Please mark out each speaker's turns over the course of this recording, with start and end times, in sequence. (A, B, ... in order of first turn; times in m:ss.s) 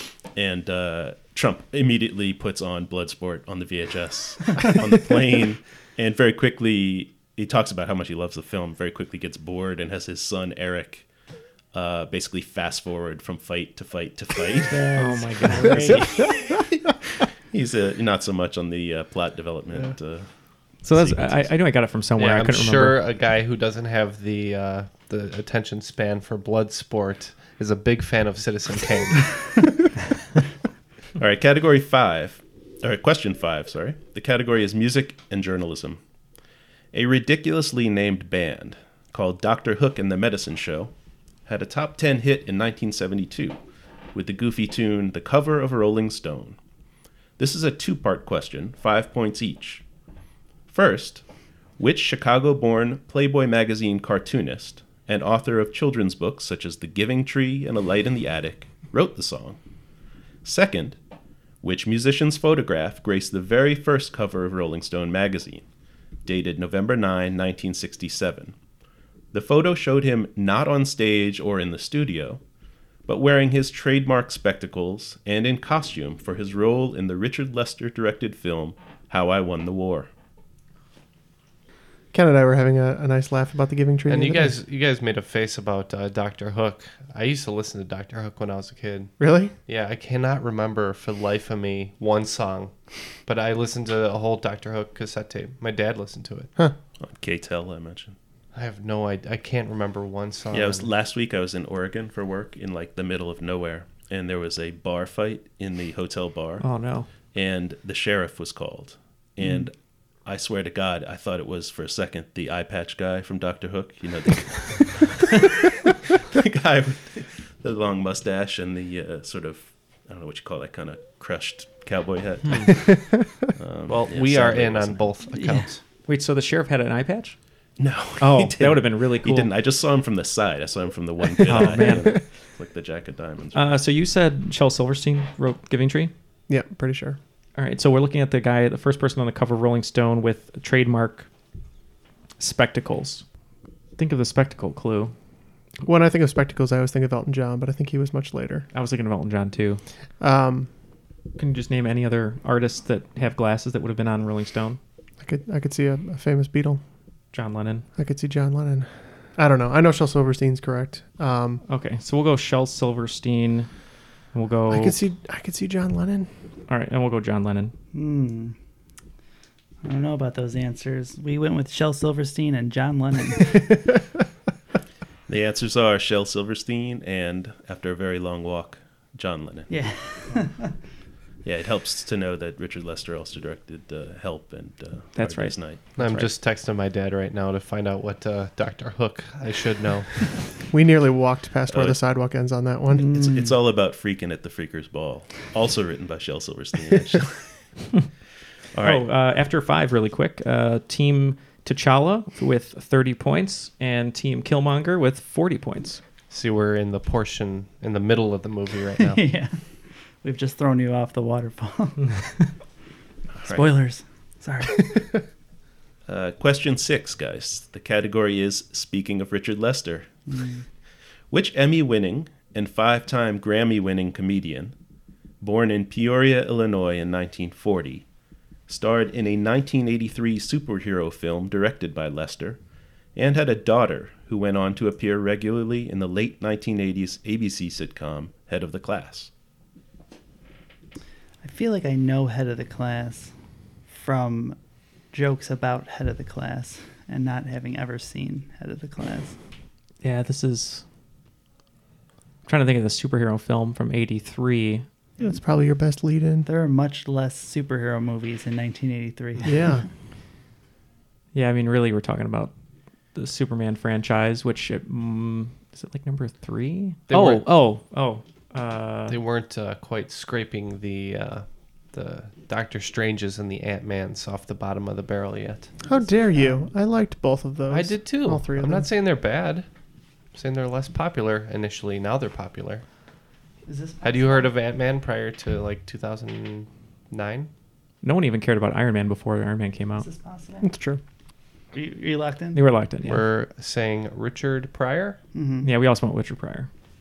0:00.3-0:11.1 A
0:11.7-0:14.8 A
0:14.7-0:16.0 B
0:15.0-0:16.2 C
0:17.5-0:20.3 A
0:20.8-0:21.5 A
0:20.8-0:23.0 C
0:22.2-0:29.4 D
0:31.2-0:36.0 A
0:36.9-0:40.9 A
0:41.5-0:43.6 A
0:44.1-0:46.6 A
0:47.4-0:49.8 A
0:50.7-0:51.2 A
0:51.8-0:59.6 A
1:00.4-1:01.0 A
1:01.6-1:05.6 A
1:06.2-1:08.5 A
1:09.3-1:12.4 A
1:13.1-1:20.1 A
1:22.1-1:24.6 E
1:24.1-1:29.2 D
1:29.2-1:29.6 E
1:29.7-1:32.7 D
1:33.2-1:36.5 D
1:37.0-1:38.2 A
1:38.5-1:40.9 D
1:40.5-1:46.7 A
1:46.6-1:47.1 C
1:47.3-1:49.7 A
1:50.2-2:05.1 A
2:02.5-2:02.7 D
2:03.9-2:05.8 D
2:05.3-2:05.7 B
2:06.1-2:07.4 C
2:07.8-2:13.6 A
2:08.2-2:09.5 C
2:11.5-2:12.1 C
2:13.5-2:16.1 C
2:16.5-2:17.2 E
2:17.6-2:21.3 C
2:22.4-2:23.2 C
2:24.0-2:25.1 C
2:25.8-2:28.7 E
2:28.7-2:29.8 C
2:30.2-2:30.7 E
2:31.4-2:34.8 C
2:35.2-2:36.8 E
2:37.3-2:37.9 C
2:38.0-2:41.6 E
2:41.7-2:43.7 C
2:44.3-2:45.0 C
2:44.7-2:46.3 E
2:46.7-2:47.7 C
2:47.9-2:48.6 B
2:49.8-2:53.7 B
2:55.3-2:59.7 A
2:59.7-3:00.7 B
3:01.4-3:06.3 A
3:05.2-3:06.2 C
3:06.0-3:10.2 D
3:10.7-3:13.1 E
3:11.7-3:12.0 A
3:12.9-3:13.6 B
3:13.1-3:17.5 A
3:18.7-3:19.1 A
3:18.8-3:26.0 C
3:26.3-3:29.2 D
3:29.0-3:29.6 B
3:30.2-3:32.5 B
3:33.4-3:33.7 A
3:33.4-3:35.1 B
3:36.1-3:40.1 A
3:40.3-3:40.6 B
3:41.3-3:44.7 A
3:45.4-3:48.0 A
3:48.7-3:52.6 A
3:53.2-3:59.3 A
4:01.4-4:03.3 B
4:03.9-4:04.6 B
4:05.1-4:09.4 B
4:10.0-4:10.8 C
4:12.5-4:14.9 C
4:15.2-4:16.5 E
4:16.4-4:19.8 B
4:19.4-4:19.9 E
4:21.3-4:22.5 C
4:23.1-4:29.2 C
4:27.1-4:27.5 D
4:29.1-4:35.8 D
4:35.8-4:36.7 B
4:35.9-4:38.9 E
4:37.7-4:39.7 D
4:40.3-4:42.8 D
4:43.7-4:44.5 B
4:44.0-4:47.5 D
4:48.0-4:50.1 C
4:50.0-4:50.7 B
4:50.6-4:51.0 E
4:51.7-4:52.6 B
4:52.5-4:53.2 C
4:53.0-4:55.2 D
4:55.3-4:55.7 B
4:55.6-4:56.7 C